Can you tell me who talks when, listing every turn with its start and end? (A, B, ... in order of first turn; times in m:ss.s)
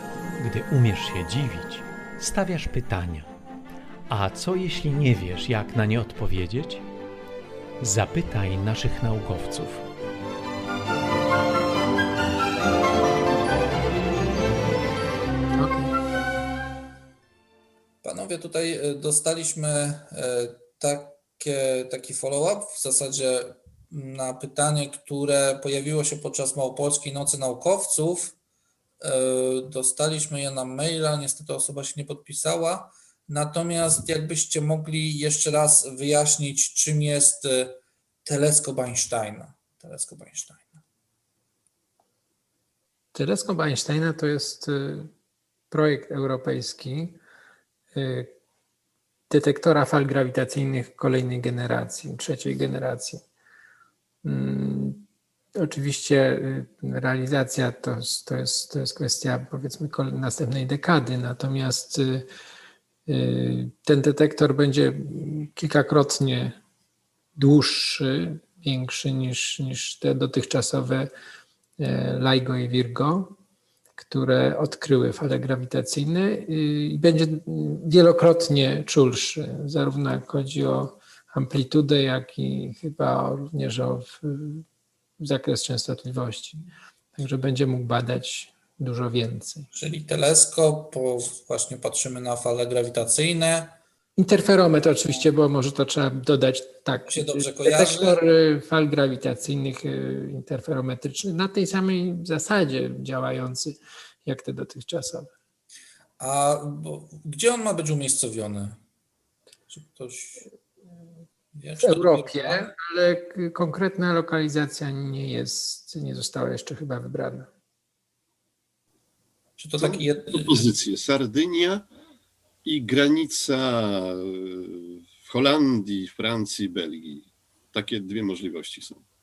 0:00.4-0:03.3 A
0:04.1-0:06.8 A
0:07.8-0:09.8 A
0:15.6-0:15.9 B
0:18.0-0:28.3 C
0:29.0-0:40.8 C
0:43.1-0:45.1 B
0:45.7-0:47.2 B
0:47.9-0:48.3 B
0:49.3-0:53.2 B
0:54.2-0:55.0 B
0:55.5-1:02.3 B
1:03.1-1:06.6 B
1:07.4-1:11.1 B
1:11.8-1:13.4 B
1:14.0-1:24.6 B
1:25.2-1:29.7 B
1:29.7-1:33.8 C
1:34.2-1:45.3 B
1:37.1-1:38.2 C
1:46.2-1:48.8 C
1:49.7-1:50.5 C
1:51.5-1:52.7 C
1:51.8-1:57.5 B
1:59.6-2:00.7 C
1:59.8-2:01.8 D
2:02.6-2:09.0 D